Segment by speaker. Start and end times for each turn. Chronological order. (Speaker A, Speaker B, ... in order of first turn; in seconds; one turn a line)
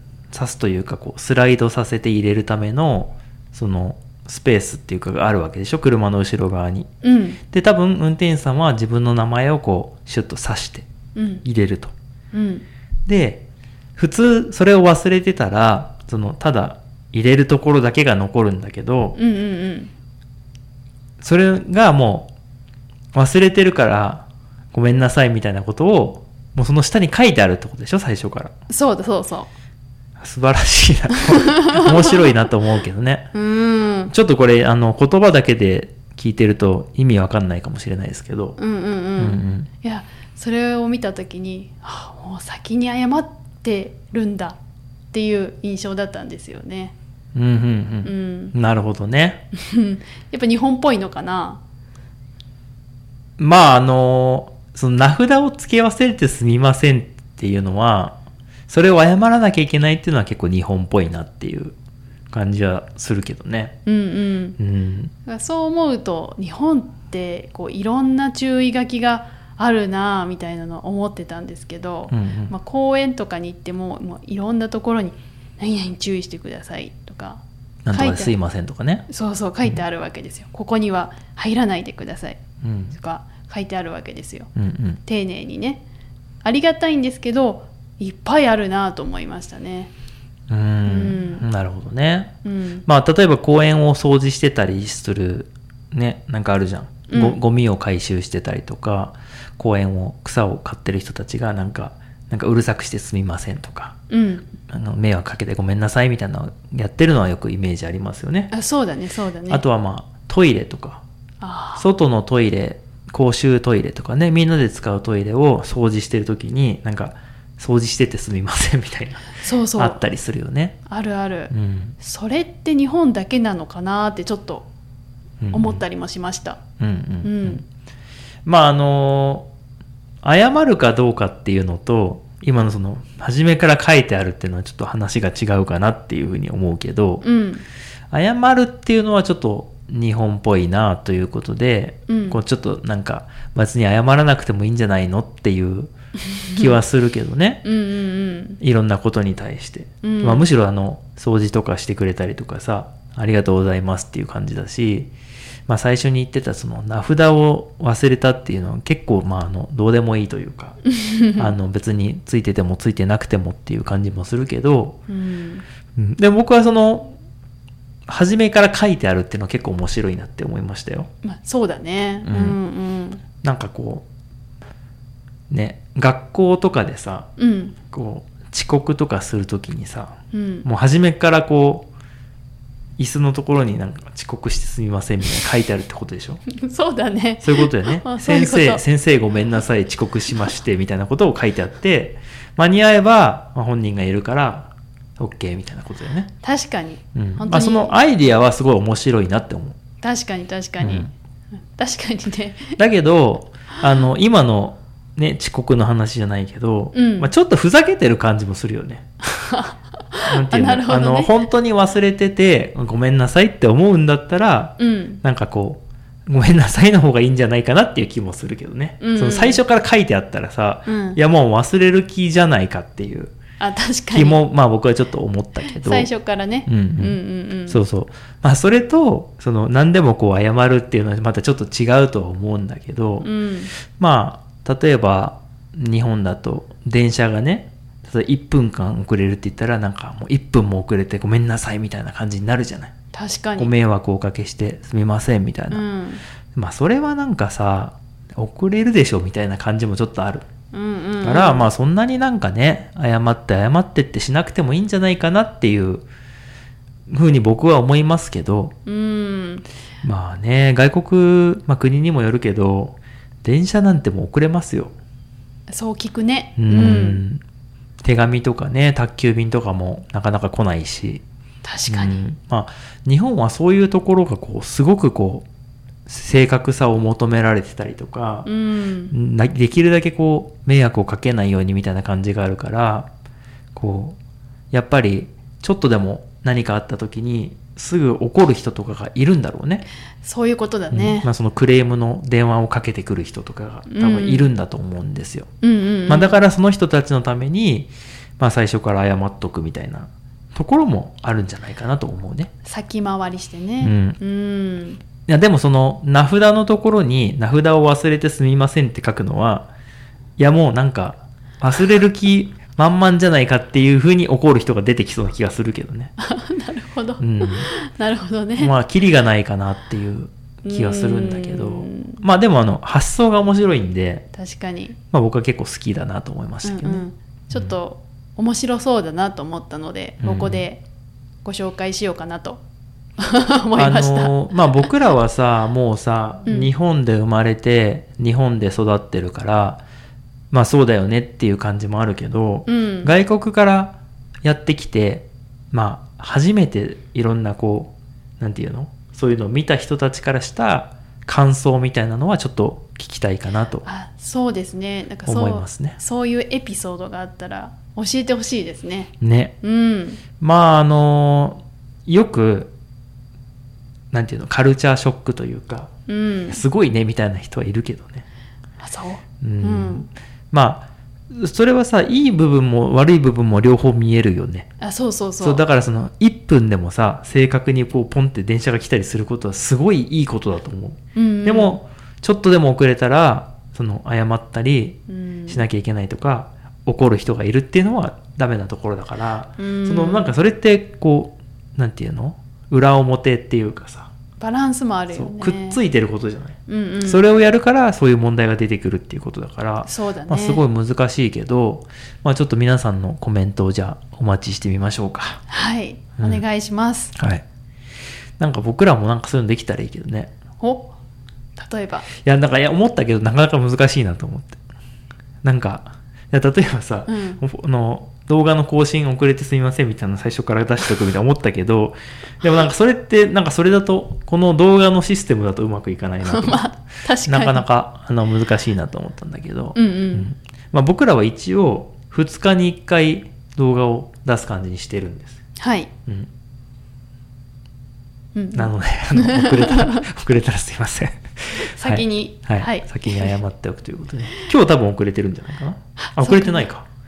Speaker A: 0.3-6.9
Speaker B: 7.0-7.4
Speaker A: 7.5-10.9
Speaker B: 11.1-11.4
Speaker A: 11.4-11.9
Speaker B: 12.3-12.6
Speaker A: 13.1-19.2
Speaker B: 19.1-19.9
Speaker A: 21.2-22.3
Speaker A: 23.1-28.5
Speaker B: 28.7-29.5
Speaker A: 30.2-33.3
Speaker B: 31.4-32.3
Speaker B: 33.3-34.1
Speaker A: 34.1-38.6
Speaker B: 38.6-44.6
Speaker A: 39.2-39.7
Speaker B: 45.1-46.9
Speaker A: 47.3-49.4
Speaker B: 48.0-48.5
Speaker B: 49.5-51.6
Speaker A: 53.4-58.2
Speaker A: 58.7-61.7
Speaker A: 62.3-63.8
Speaker B: 63.9-64.6
Speaker A: 64.6-65.1
Speaker B: 65.2-77.4
Speaker A: 72.1-72.5
Speaker A: 77.8-79.0
Speaker B: 77.9-78.3
Speaker B: 79.1-82.4
Speaker A: 82.6-83.0
Speaker B: 82.9-84.5
Speaker A: 84.5-85.0
Speaker B: 85.0-85.8
Speaker B: 86.4-89.9
Speaker A: 90.5-92.3
Speaker B: 90.8-91.4
Speaker B: 92.4-92.8
Speaker A: 92.8-104.0
Speaker B: 97.1-97.4
Speaker B: 104.1-104.5
Speaker A: 104.7-108.5
Speaker B: 108.5-109.6
Speaker A: 109.5-111.0
Speaker B: 111.4-111.8
Speaker A: 111.8-120.8
Speaker B: 119.4-120.0
Speaker B: 120.9-124.7
Speaker A: 121.5-122.0
Speaker A: 125.4-125.8
Speaker B: 125.5-126.6
Speaker A: 126.8-127.6
Speaker B: 127.2-127.6
Speaker A: 128.4-129.5
Speaker A: 130.2-137.2
Speaker B: 137.2-137.6
Speaker A: 138.1-145.9
Speaker B: 142.1-142.4
Speaker B: 146.3-146.7
Speaker A: 146.5-147.6
Speaker B: 147.6-148.6
Speaker A: 148.6-155.1
Speaker B: 150.0-150.5
Speaker A: 155.7-160.8
Speaker B: 160.8-161.5
Speaker A: 161.4-165.0
Speaker B: 165.1-165.6
Speaker A: 165.9-167.1
Speaker A: 168.1-171.1
Speaker B: 171.2-173.2
Speaker A: 172.2-172.6
Speaker A: 173.4-174.1
Speaker A: 175.5-177.3
Speaker B: 177.4-177.8
Speaker A: 177.9-181.9
Speaker B: 180.3-180.7
Speaker A: 183.0-186.4
Speaker B: 186.5-188.8
Speaker A: 187.4-196.3
Speaker B: 196.4-198.0
Speaker A: 197.1-199.8
Speaker B: 200.0-201.1
Speaker A: 200.8-201.1
Speaker B: 201.8-202.8
Speaker A: 202.8-209.1
Speaker B: 206.9-207.3
Speaker B: 209.3-211.3
Speaker A: 210.3-223.3
Speaker B: 214.8-215.2
Speaker B: 219.0-219.6
Speaker B: 220.9-221.2
Speaker B: 223.6-224.4
Speaker A: 224.1-226.1
Speaker B: 225.6-227.8
Speaker A: 226.7-233.3
Speaker B: 233.2-233.7
Speaker A: 233.9-242.9
Speaker B: 243.1-243.7
Speaker A: 243.6-245.8
Speaker B: 245.7-246.2
Speaker A: 246.5-250.4
Speaker B: 250.7-251.7
Speaker A: 251.2-256.1
Speaker A: 257.1-258.7
Speaker B: 258.9-259.6
Speaker A: 260.0-264.9
Speaker B: 265.7-267.2
Speaker A: 266.6-267.4
Speaker A: 268.0-271.2
Speaker B: 271.6-272.2
Speaker A: 271.9-275.4
Speaker A: 276.1-278.5
Speaker B: 278.4-279.1
Speaker A: 279.1-283.1
Speaker A: 283.7-284.2
Speaker A: 284.7-289.9
Speaker B: 290.2-291.3
Speaker A: 290.9-295.5
Speaker B: 293.9-294.5
Speaker B: 295.6-296.4
Speaker A: 296.1-302.5
Speaker B: 302.6-305.0
Speaker A: 303.8-304.2
Speaker A: 305.3-309.7
Speaker A: 310.4-316.1
Speaker B: 316.2-318.7
Speaker A: 317.2-317.7
Speaker A: 318.6-324.2
Speaker B: 320.6-322.2
Speaker B: 324.3-325.0
Speaker A: 325.1-327.7
Speaker B: 326.6-330.8
Speaker A: 330.2-330.6
Speaker B: 331.4-332.6
Speaker B: 333.2-334.9
Speaker A: 333.8-339.8
Speaker B: 336.4-336.7
Speaker A: 340.5-353.9
Speaker B: 342.7-343.1
Speaker B: 353.8-360.2
Speaker A: 355.2-356.0
Speaker A: 359.2-359.5
Speaker A: 360.4-362.7
Speaker A: 364.1-365.9
Speaker B: 366.1-366.6
Speaker A: 366.5-368.2
Speaker B: 368.8-370.1
Speaker A: 369.4-374.7
Speaker B: 374.8-375.6
Speaker A: 375.4-394.1
Speaker B: 381.1-381.8
Speaker B: 385.1-385.6
Speaker B: 389.6-390.4
Speaker B: 394.4-395.8
Speaker A: 395.1-405.4
Speaker B: 396.7-397.2
Speaker B: 399.8-400.6
Speaker B: 405.5-407.1
Speaker A: 406.2-406.4
Speaker A: 407.1-407.4
Speaker A: 408.4-410.3
Speaker B: 410.6-410.9
Speaker B: 411.6-412.1
Speaker A: 412.2-414.6
Speaker A: 415.4-426.7
Speaker B: 417.1-417.4
Speaker B: 426.2-427.6
Speaker A: 427.2-435.4
Speaker B: 429.7-430.3
Speaker B: 435.6-435.9
Speaker B: 438.3-440.0
Speaker A: 438.5-446.9
Speaker B: 441.8-443.3
Speaker B: 446.0-446.7